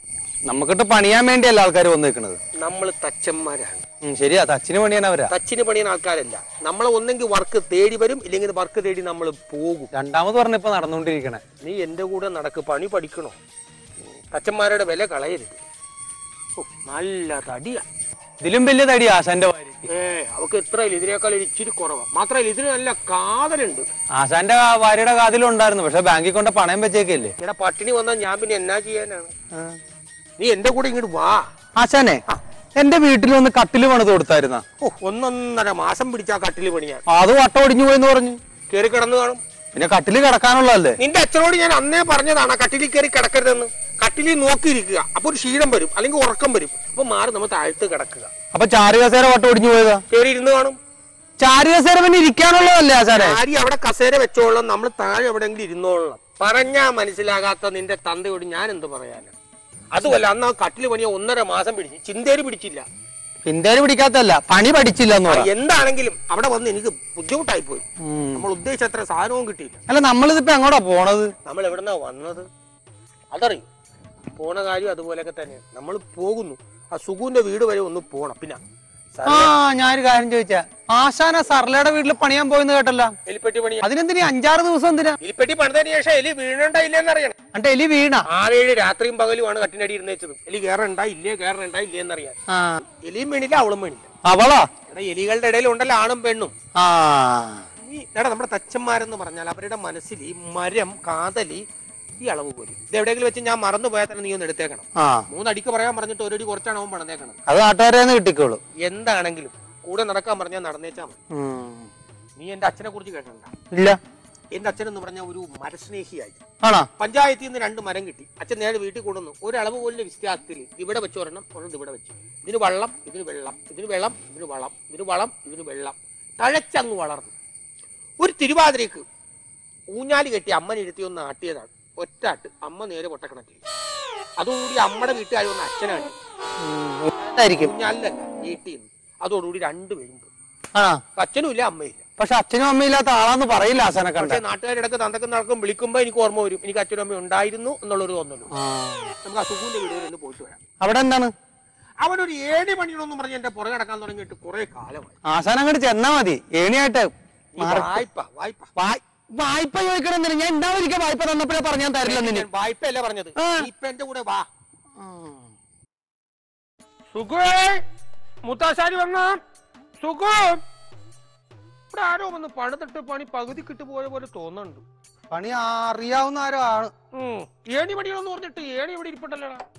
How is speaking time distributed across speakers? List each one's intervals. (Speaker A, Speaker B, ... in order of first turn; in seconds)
Speaker A: 0.5-2.4, 4.0-5.3, 9.9-11.4, 18.4-19.9, 24.1-27.3, 29.5-29.8, 31.8-32.2, 32.8-34.6, 37.1-38.4, 39.7-41.0, 48.5-50.0, 51.4-53.4, 63.5-65.5, 68.0-68.5, 69.9-71.3, 79.2-83.2, 83.8-85.2, 87.5-88.3, 92.5-92.8, 94.2-94.7, 96.8-97.7, 105.0-105.2, 107.5-108.6, 111.3-111.9, 113.7-114.0, 116.6-116.9, 136.6-137.7, 140.8-141.0, 142.2-144.4, 148.5-149.1, 150.8-151.3, 155.2-158.0, 158.8-162.5, 163.4-163.7, 165.0-165.5, 175.3-176.9
Speaker B: 2.6-3.8, 5.3-9.9, 11.6-13.4, 14.3-15.6, 16.6-17.9, 19.9-23.9, 27.4-29.3, 30.4-31.5, 34.8-37.0, 38.7-39.4, 41.0-48.3, 50.1-50.8, 53.1-59.3, 59.9-62.9, 65.3-69.8, 71.5-72.5, 73.3-73.7, 74.4-78.6, 79.1-79.5, 83.3-83.9, 85.2-87.3, 88.3-92.3, 93.0-94.1, 94.9-96.5, 97.8-101.6, 102.2-107.4, 108.8-111.2, 112.4-113.5, 114.5-116.4, 117.0-127.3, 128.2-129.0, 129.9-133.6, 134.4-136.2, 137.6-140.3, 141.2-142.0, 144.2-148.5, 149.2-150.6, 152.0-155.2, 157.5-158.7, 162.0-164.5, 167.1-167.8, 168.4-169.4, 170.0-170.6, 171.9-174.8, 177.1-179.6